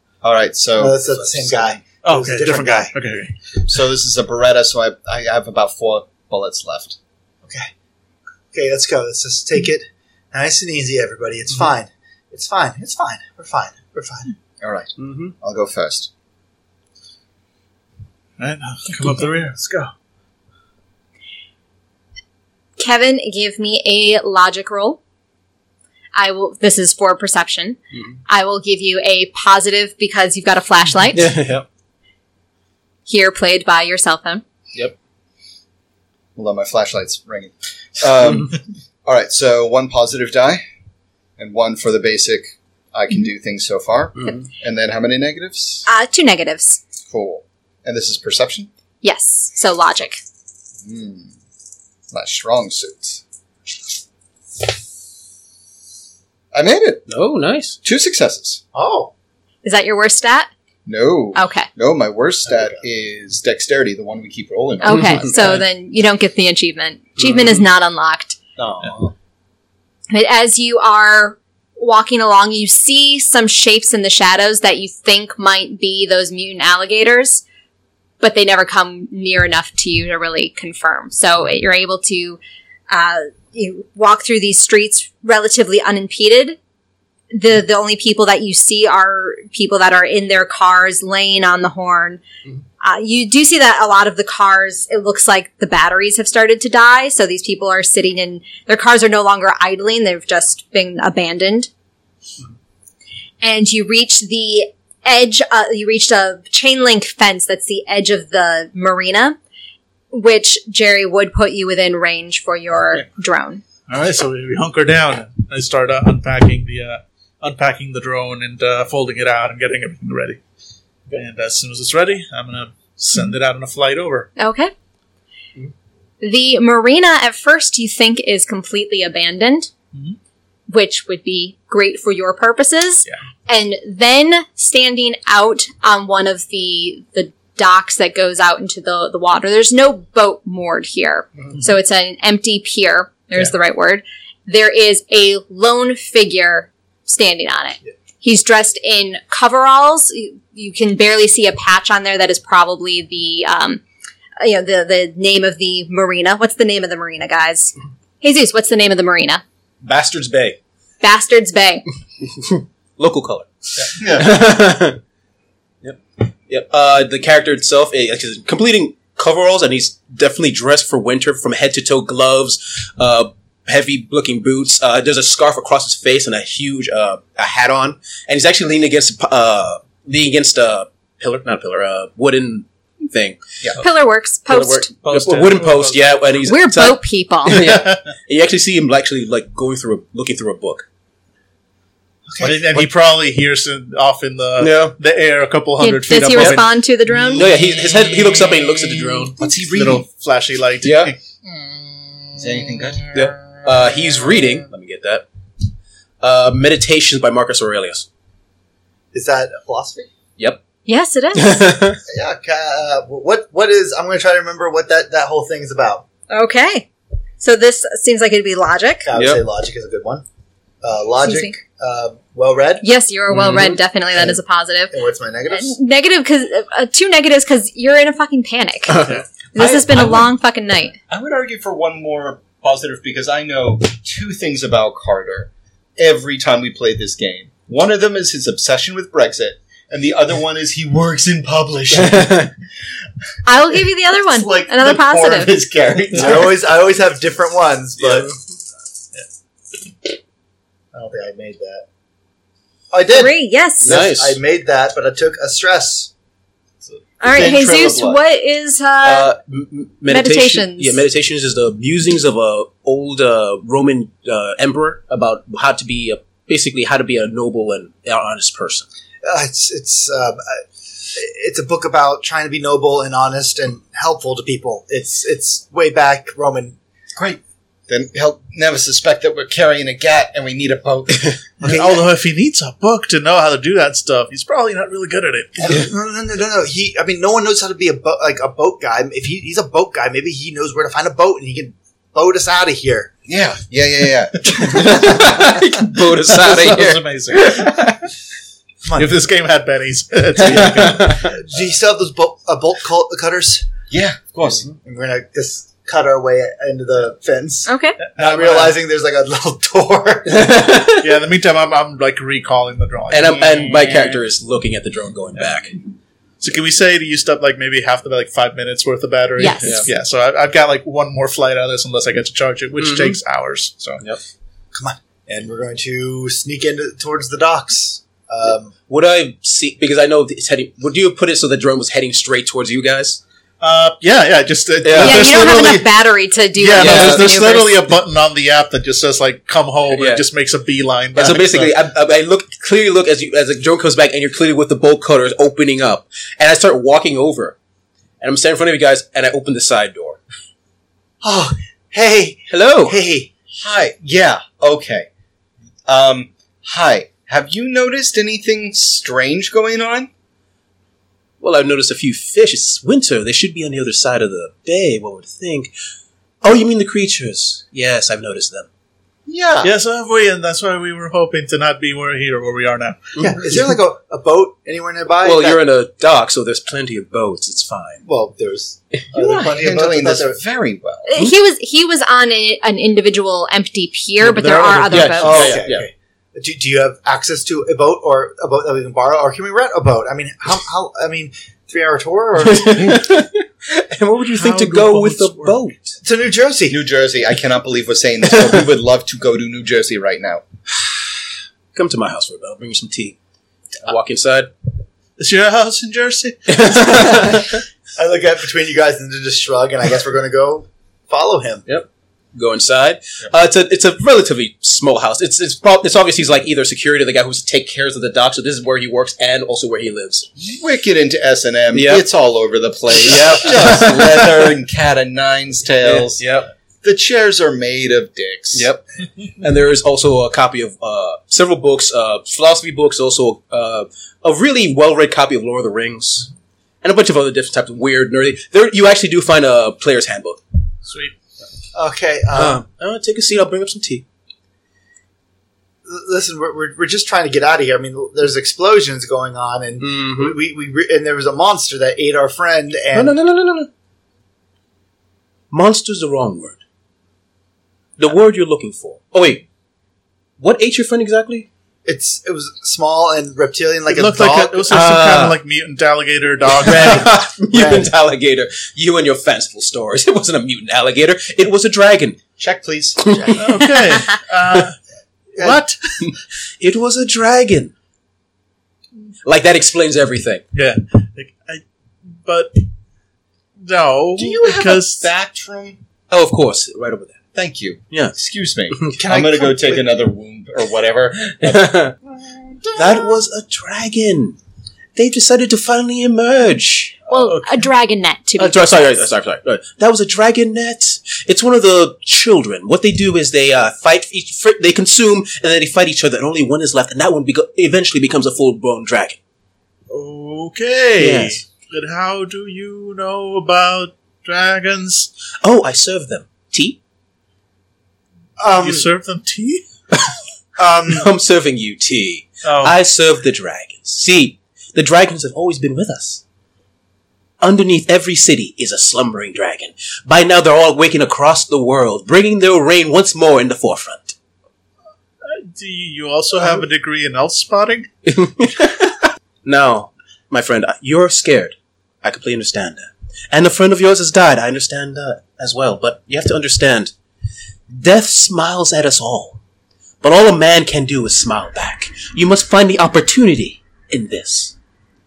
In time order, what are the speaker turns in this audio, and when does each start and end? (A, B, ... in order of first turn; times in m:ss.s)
0:00.2-0:01.8 A
0:00.8-0:02.9 B
0:02.0-0:03.4 C
0:03.6-0:07.0 A
0:07.4-0:07.7 B
0:08.5-0:14.3 B
0:14.6-0:16.1 A
0:15.0-0:15.3 D
0:18.4-0:19.9 C
0:22.8-0:25.0 E
0:26.1-0:31.3 E
0:31.1-0:31.6 D
0:33.0-0:34.4 E
0:36.4-0:40.6 A
0:41.4-0:45.8 A
0:44.1-0:44.4 D
0:45.8-0:46.8 E
0:47.1-0:48.7 A
0:49.0-0:50.2 E
0:50.8-0:51.3 A
0:52.1-0:53.2 A
0:56.5-0:57.1 A
0:57.1-0:57.8 D
0:57.8-0:58.6 A
0:58.7-0:59.1 B
0:59.6-1:00.5 E
1:00.8-1:05.6 A
1:01.3-1:01.7 E
1:04.8-1:08.4 E
1:04.9-1:05.2 D
1:10.1-1:17.4 E
1:18.2-1:26.6 E
1:27.3-1:32.2 E
1:32.8-1:41.7 E
1:43.4-1:49.4 E
1:50.1-1:53.6 E
1:53.9-2:00.4 C
2:01.1-2:04.3 C
2:04.4-2:04.7 E
2:06.2-2:09.7 E
2:10.7-2:33.8 E
2:34.4-2:39.4 E
2:39.8-2:40.6 D
2:41.0-2:41.8 E
2:42.2-2:45.0 D
2:44.0-2:44.4 A
2:45.8-3:03.4 D
3:03.8-3:04.9 E
3:04.5-3:10.8 D
3:05.0-3:06.0 C
3:06.4-3:07.6 E
3:07.5-3:08.0 C
3:12.3-3:12.6 B
3:12.4-3:16.7 C
3:14.6-3:15.0 D
3:15.8-3:17.5 E
3:17.3-3:19.5 D
3:19.4-3:20.0 A
3:19.4-3:21.2 C
3:20.8-3:21.1 D
3:22.4-3:23.1 A
3:23.1-3:25.2 D
3:26.2-3:28.1 D
3:29.1-3:30.1 B
3:30.9-3:31.8 E
3:31.3-3:32.0 D
3:32.1-3:36.0 B
3:36.3-3:36.9 E
3:37.4-3:39.1 E
3:39.0-3:40.2 B
3:39.1-3:39.4 D
3:40.8-3:42.8 B
3:41.2-3:41.5 E
3:42.8-3:44.9 E
3:43.3-3:43.8 D
3:44.9-3:45.8 B
3:45.5-3:51.0 E
3:48.9-3:50.3 D
3:51.1-4:02.5 A
4:01.9-4:02.5 D
4:03.4-4:05.5 E
4:04.3-4:06.5 A
4:06.1-4:08.3 B
4:08.0-4:08.3 D
4:10.9-4:11.8 B
4:12.9-4:16.1 B
4:13.1-4:14.0 E
4:13.8-4:14.4 D
4:16.9-4:18.2 A
4:17.2-4:19.3 E
4:19.0-4:28.8 D
4:20.1-4:21.0 E
4:29.2-4:36.8 B
4:37.2-4:41.4 A
4:41.6-4:42.0 B
4:41.6-4:45.9 C
4:45.6-4:53.1 B
4:53.3-4:54.7 A
4:54.6-4:57.9 D
4:54.7-4:55.0 B
4:56.2-4:58.0 C
4:58.8-4:59.1 B
4:58.9-5:01.4 C
5:00.4-5:01.3 D
5:01.3-5:03.7 B
5:03.9-5:04.7 A
5:04.7-5:10.5 B
5:07.7-5:08.0 E
5:08.1-5:08.8 C
5:10.3-5:11.2 D
5:10.9-5:13.7 C
5:13.1-5:15.7 D
5:16.4-5:24.0 C
5:19.4-5:19.9 E
5:19.6-5:19.9 D
5:22.8-5:23.2 D
5:24.7-5:28.7 B
5:28.9-5:33.2 D
5:33.6-5:35.9 C
5:34.8-5:35.3 D
5:35.0-5:37.8 E
5:36.6-5:41.7 C
5:36.8-5:37.3 D
5:39.9-5:40.2 D
5:41.1-5:47.6 D
5:48.2-5:50.2 D
5:51.2-5:53.3 B
5:52.5-5:53.0 D
5:53.5-5:55.1 A
5:55.9-6:00.1 A
6:01.4-6:05.7 D
6:06.4-6:08.7 D
6:09.3-6:09.7 B
6:09.6-6:13.1 C
6:13.2-6:13.4 D
6:13.2-6:15.6 B
6:15.2-6:18.0 D
6:18.0-6:20.4 B
6:19.1-6:21.1 A
6:21.0-6:25.6 E
6:24.2-6:25.6 C
6:24.9-6:25.8 D
6:25.2-6:33.0 B
6:32.4-6:36.0 D
6:34.3-6:35.6 C
6:36.0-6:36.8 B
6:36.7-6:40.4 A
6:41.7-6:43.2 D
6:43.8-6:44.5 D
6:45.2-6:47.2 C
6:46.5-6:47.6 D
6:48.0-6:51.6 B
6:51.7-7:00.3 D
7:00.4-7:06.2 A
7:01.7-7:02.0 D
7:02.9-7:04.6 D
7:05.8-7:06.5 D
7:06.8-7:08.7 A
7:08.5-7:08.8 D
7:09.4-7:16.3 D
7:16.8-7:20.4 D
7:20.8-7:21.1 C
7:21.7-7:22.6 B
7:22.3-7:24.0 D
7:25.8-7:33.1 B
7:29.8-7:30.3 D
7:32.9-7:33.7 D
7:35.5-7:36.6 D
7:38.0-7:39.4 D
7:40.4-7:41.5 D
7:41.8-7:44.7 B
7:43.9-7:47.2 C
7:44.7-7:45.4 D
7:46.6-7:52.2 D
7:46.7-7:47.9 B
7:52.4-7:53.3 A
7:53.0-7:54.6 D
7:53.3-7:54.8 C
7:55.3-7:56.0 C
7:56.0-7:57.7 D
7:59.2-8:00.4 D
8:00.5-8:01.6 C
8:02.2-8:02.6 C
8:03.6-8:05.1 C
8:04.2-8:05.8 A
8:06.1-8:07.2 D
8:07.3-8:13.0 A
8:09.0-8:09.9 B
8:11.3-8:11.9 D
8:12.8-8:14.4 D
8:15.0-8:17.0 D
8:17.1-8:19.0 E
8:17.1-8:17.7 C
8:18.4-8:29.2 D
8:29.9-8:35.1 C
8:31.0-8:31.4 D
8:35.4-8:36.8 D
8:38.4-8:38.9 B
8:38.5-8:39.6 C
8:40.6-8:41.1 B
8:40.9-8:46.2 D
8:42.4-8:42.8 C
8:47.4-8:54.1 D
8:55.2-8:57.9 C
8:58.0-9:06.9 D
9:07.7-9:09.4 D
9:10.0-9:14.5 D